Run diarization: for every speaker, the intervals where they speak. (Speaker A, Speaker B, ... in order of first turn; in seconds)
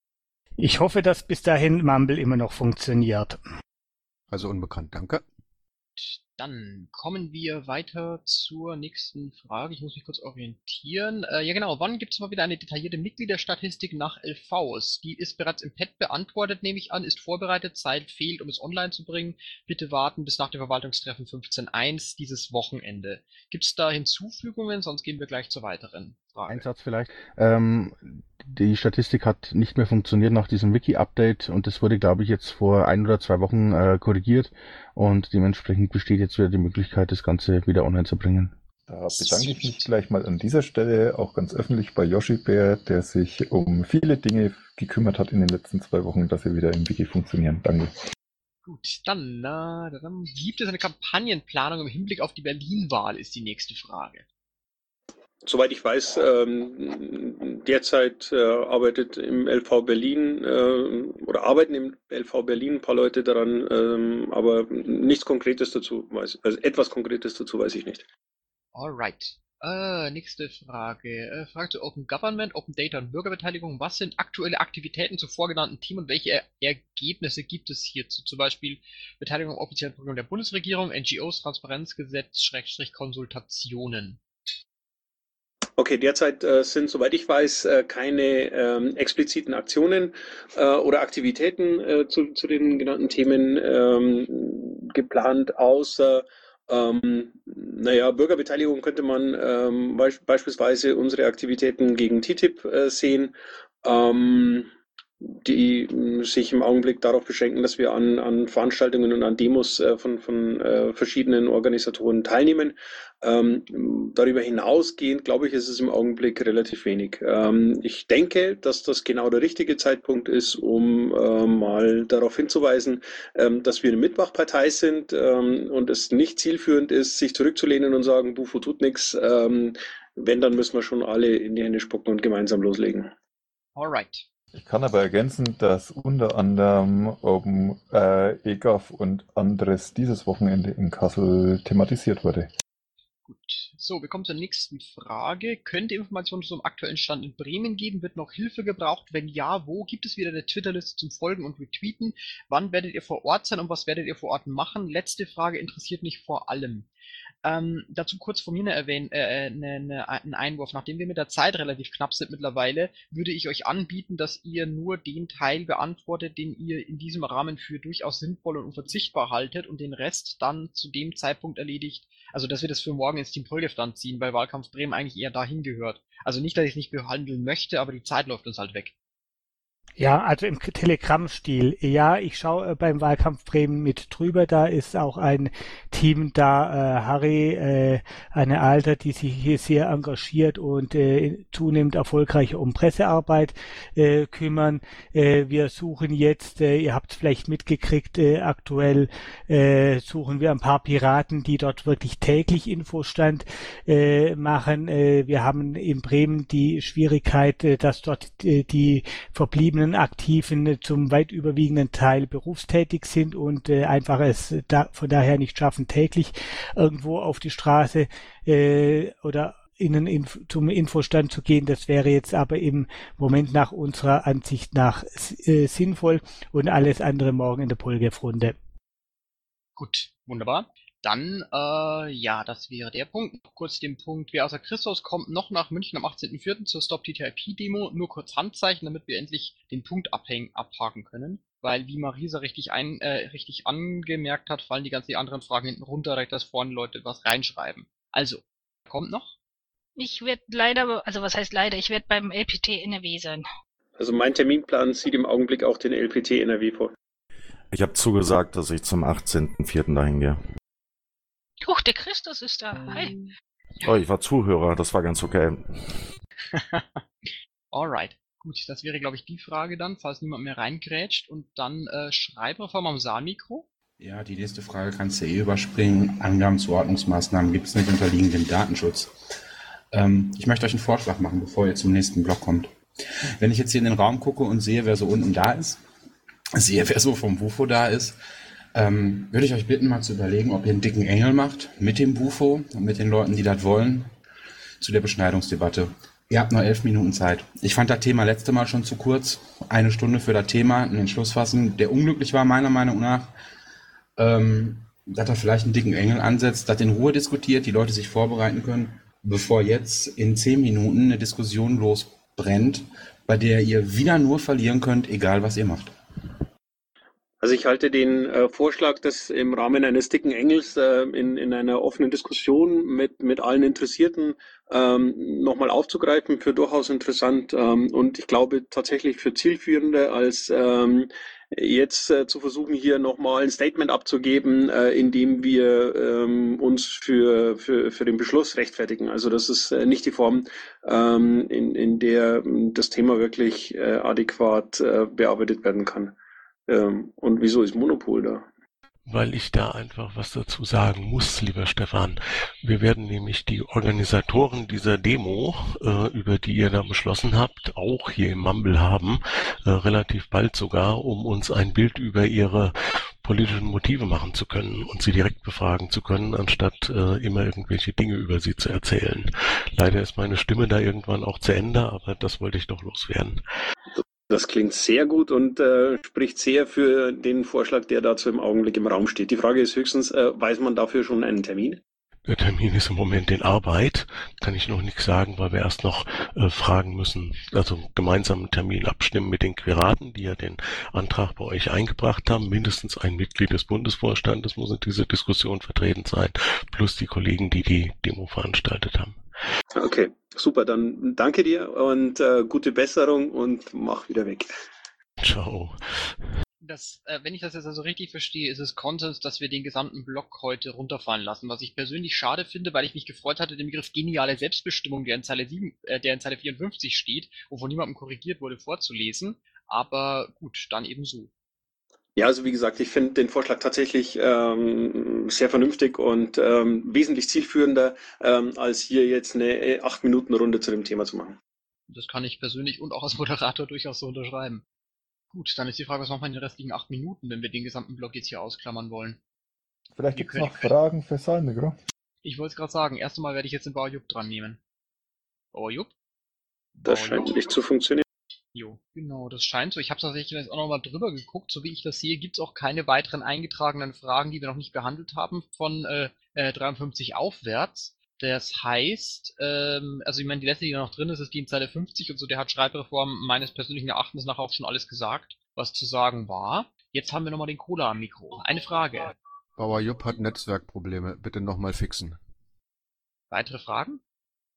Speaker A: 0.6-3.4, 180.0-228.6
Speaker B: 4.3-5.2, 469.6-472.2
Speaker C: 6.0-26.6, 39.1-39.8, 48.6-54.2, 68.7-84.2, 133.8-134.2, 143.3-156.9, 157.4-178.9, 229.8-249.3, 266.5-267.0, 267.7-273.7, 406.6-421.3, 431.9-434.6, 435.3-439.2, 440.2-440.7, 442.2-444.6, 445.5-445.9, 446.9-447.3, 448.5-469.1, 473.3-474.0
Speaker D: 26.5-38.5
Speaker E: 38.9-47.9, 134.5-142.5, 440.0-441.8
Speaker F: 55.4-68.0, 85.8-104.7, 105.2-133.1, 254.0-256.9, 317.4-346.1, 346.7-348.5, 374.3-381.8, 399.8-404.5, 422.2-431.4, 446.9-448.0
Speaker G: 250.0-253.4, 261.6-263.2
Speaker H: 257.7-260.4, 263.8-266.1
Speaker I: 274.0-279.1, 279.9-282.7, 283.4-285.8, 286.6-288.2, 288.7-294.1, 294.8-303.3, 304.2-315.9
Speaker J: 349.1-373.4, 382.3-399.2, 405.2-406.1